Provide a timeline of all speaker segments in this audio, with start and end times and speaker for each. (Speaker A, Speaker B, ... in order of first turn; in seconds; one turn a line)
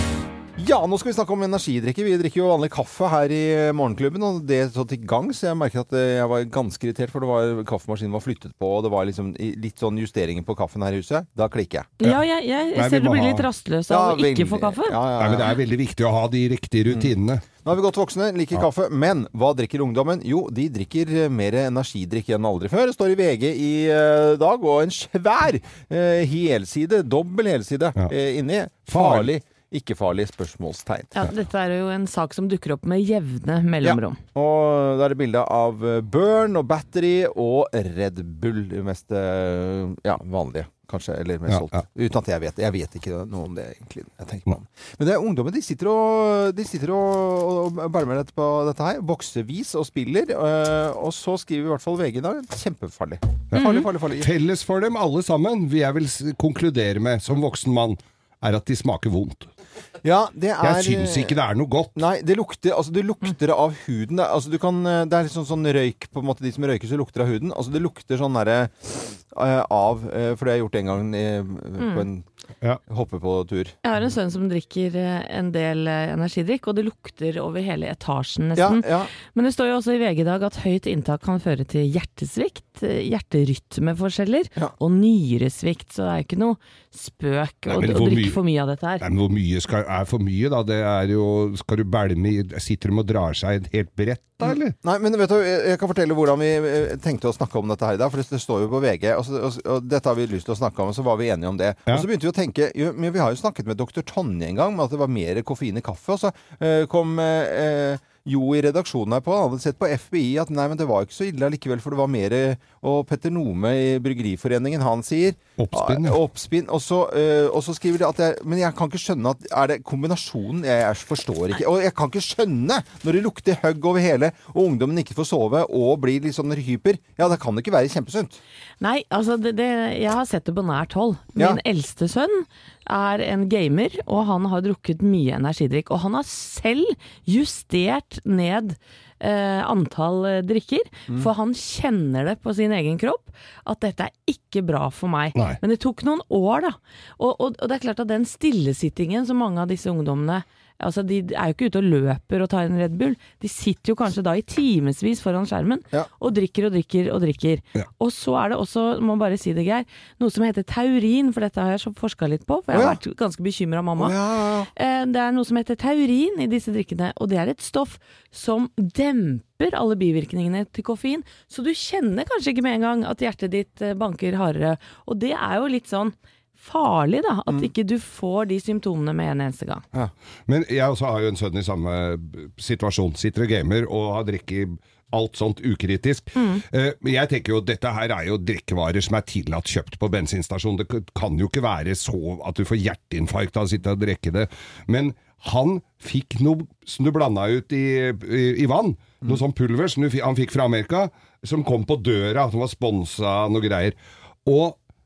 Speaker A: 0.6-11.9
Speaker B: 12.0-15.0
Speaker C: 12.7-13.5
Speaker A: 13.9-15.6
Speaker C: 15.2-17.4
Speaker A: 16.9-31.2
Speaker C: 28.9-29.3
Speaker B: 31.1-34.2
Speaker A: 33.8-54.3
Speaker C: 41.5-41.8
Speaker C: 53.5-59.5
Speaker B: 53.5-53.8
Speaker A: 60.0-61.4
Speaker C: 60.6-61.9
Speaker A: 61.9-72.2
Speaker B: 71.8-72.0
Speaker A: 72.9-73.7
Speaker B: 73.8-89.0
Speaker A: 78.5-79.1
Speaker C: 87.7-88.4
Speaker C: 89.0-94.7
Speaker A: 94.4-128.4
Speaker C: 115.6-116.2
Speaker B: 128.8-164.2
Speaker C: 145.3-145.6
Speaker A: 162.7-163.0
Speaker A: 164.0-164.7
Speaker B: 164.7-179.8
Speaker C: 180.5-204.8
Speaker B: 186.3-186.6